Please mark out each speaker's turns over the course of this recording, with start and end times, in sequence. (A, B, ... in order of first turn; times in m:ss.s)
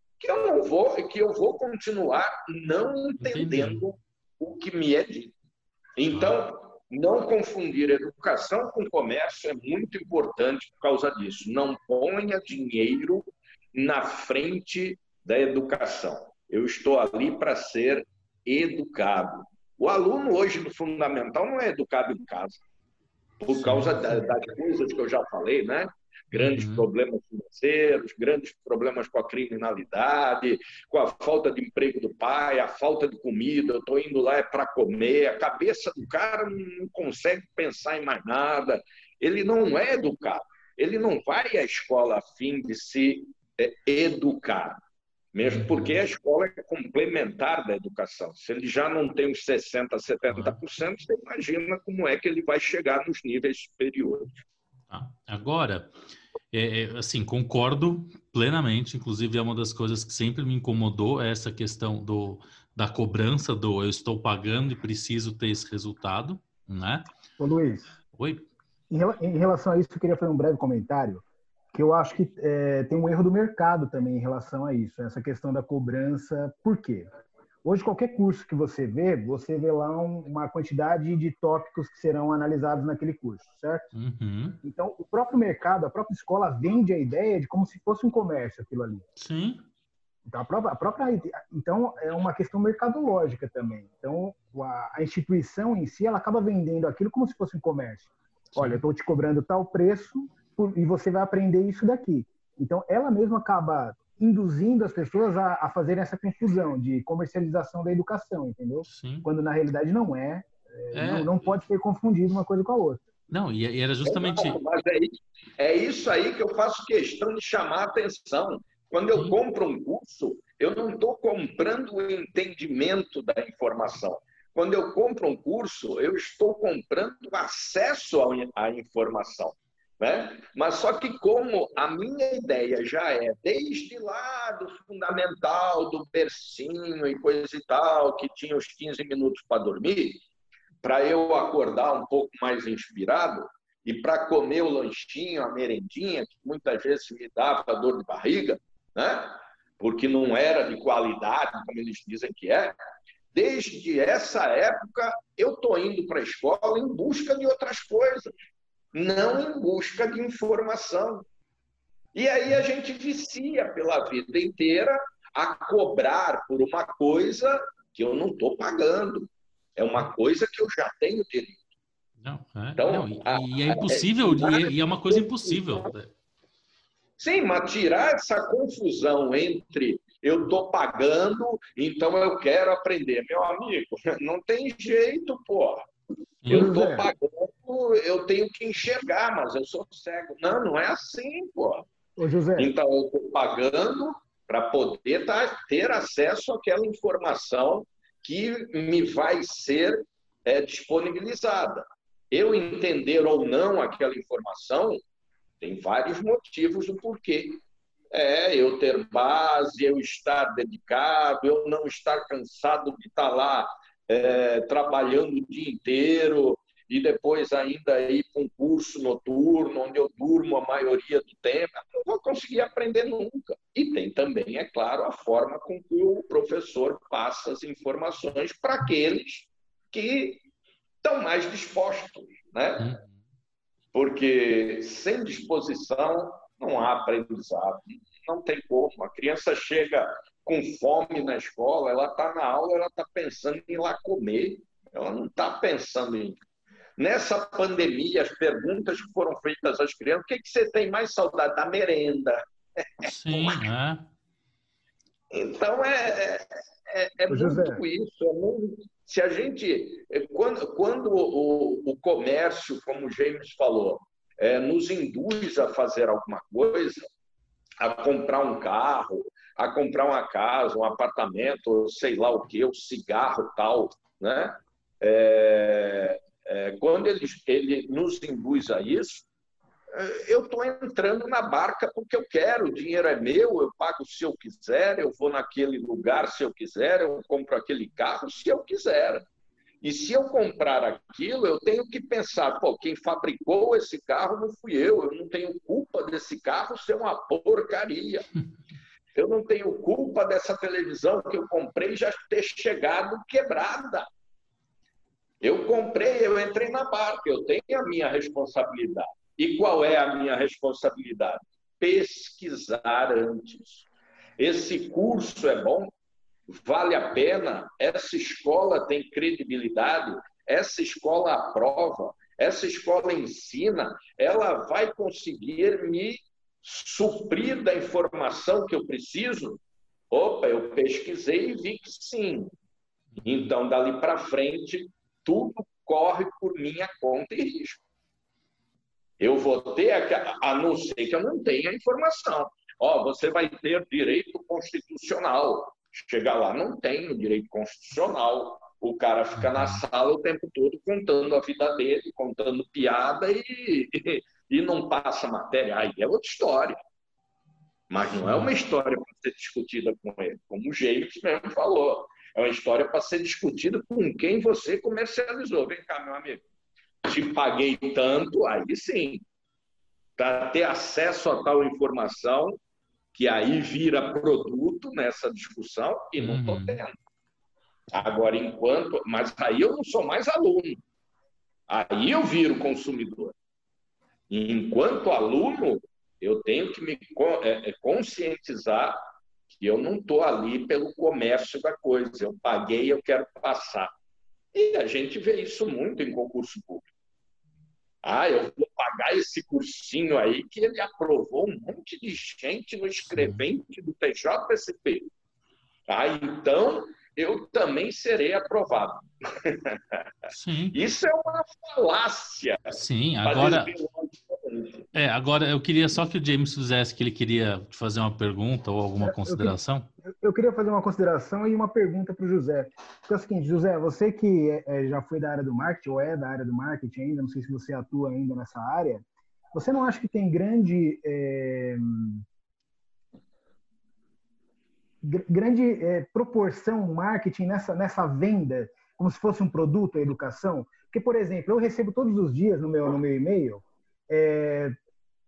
0:00.2-0:05.4 A
0:03.2-0:03.8 B
0:06.0-0:22.6 A
0:06.1-0:06.4 B
0:23.4-0:44.8 A
0:23.5-0:24.2 B
0:26.3-0:26.8 B
0:45.3-0:54.4 A
0:45.4-0:46.0 B
0:50.3-0:50.6 B
0:54.9-0:55.9 B
0:56.5-1:07.1 B
1:07.4-1:07.9 C
1:08.1-1:08.5 B
1:08.9-1:17.1 C
1:17.6-1:23.9 C
1:24.0-1:24.6 B
1:24.6-1:29.0 C
1:29.2-1:29.6 B
1:30.3-1:53.1 C
1:38.6-1:38.8 B
1:48.9-1:49.3 B
1:50.9-1:51.4 B
1:53.3-1:54.6 B
1:54.1-2:20.2 A
2:20.8-2:32.7 A
2:33.3-2:38.4 A
2:38.9-2:41.3 A
2:42.2-2:51.6 A
2:52.2-2:56.1 B
2:52.8-2:55.9 A
2:57.2-3:05.9 A
3:06.4-3:06.7 B
3:06.5-3:11.9 A
3:06.5-3:07.1 C
3:12.2-3:12.7 C
3:12.6-3:25.0 A
3:25.6-3:27.6 A
3:28.1-3:50.4 A
3:51.0-3:52.9 A
3:52.8-3:53.1 B
3:53.9-4:06.4 A
4:07.0-4:13.6 A
4:13.0-4:14.1 B
4:15.3-4:27.1 A
4:17.3-4:17.8 C
4:27.8-4:39.3 A
4:39.9-4:49.2 A
4:49.8-4:58.3 A
4:59.2-5:04.1 A
5:05.4-5:13.9 A
5:14.4-5:15.9 A
5:16.5-5:29.6 A
5:30.1-5:32.5 A
5:33.2-5:33.5 B
5:33.2-5:37.8 A
5:39.2-5:56.8 A
5:49.4-5:49.8 B
5:57.9-6:06.4 A
5:58.2-5:58.5 B
6:07.0-6:09.2 A
6:10.2-6:12.6 A
6:13.1-6:16.9 A
6:16.2-6:16.8 B
6:17.9-6:20.8 A
6:21.7-6:23.4 A
6:24.3-6:29.0 A
6:29.5-6:33.9 A
6:34.5-6:36.9 A
6:38.0-6:45.1 A
6:43.1-6:43.4 B
6:45.9-6:50.1 A
6:50.3-6:50.8 B
6:50.7-6:54.9 A
6:52.7-6:53.7 B
6:55.0-6:59.9 B
6:59.0-6:59.6 C
7:00.2-7:12.2 C
7:15.0-7:24.8 C